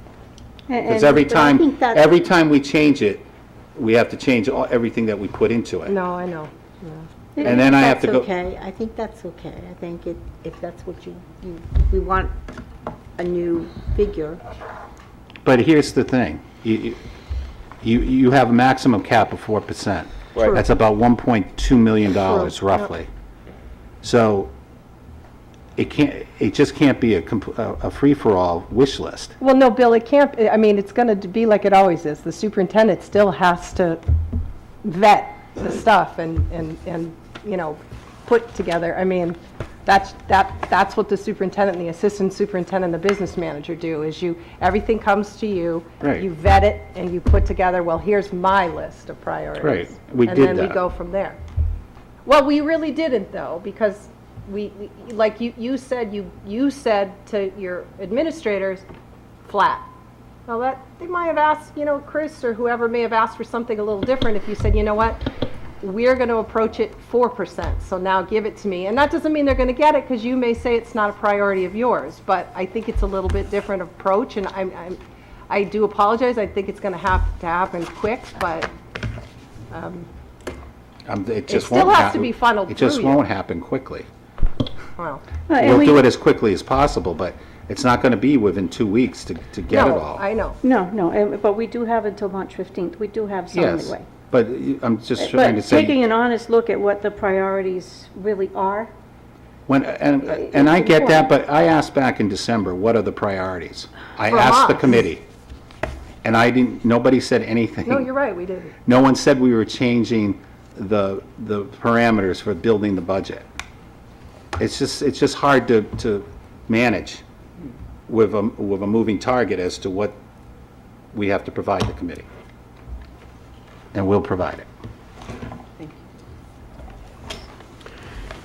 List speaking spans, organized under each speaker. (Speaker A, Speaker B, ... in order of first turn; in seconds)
Speaker A: 0.7-1.2, 85.5-86.0, 90.6-94.0, 95.2-98.9, 100.2-101.3
Speaker B: 0.8-5.9, 7.4-8.3, 15.4-17.0, 17.8-23.1, 24.0-24.5, 25.8-29.3, 49.6-50.8, 81.1-84.1, 85.6-90.2, 93.5-96.0, 99.7-105.2, 106.2-108.1, 108.8-113.5, 114.6-117.2, 118.1-120.2, 121.1-122.3, 123.9-124.7
Speaker C: 1.1-2.2, 7.5-12.3, 13.2-14.4
Speaker D: 5.9-7.1, 22.2-22.9, 29.4-34.0, 34.8-51.4, 52.2-58.8, 59.5-59.8, 60.5-75.0, 75.5-78.7, 79.7-80.1, 81.5-83.2, 85.0-85.2, 89.7-90.6, 104.3-105.0, 107.8-108.7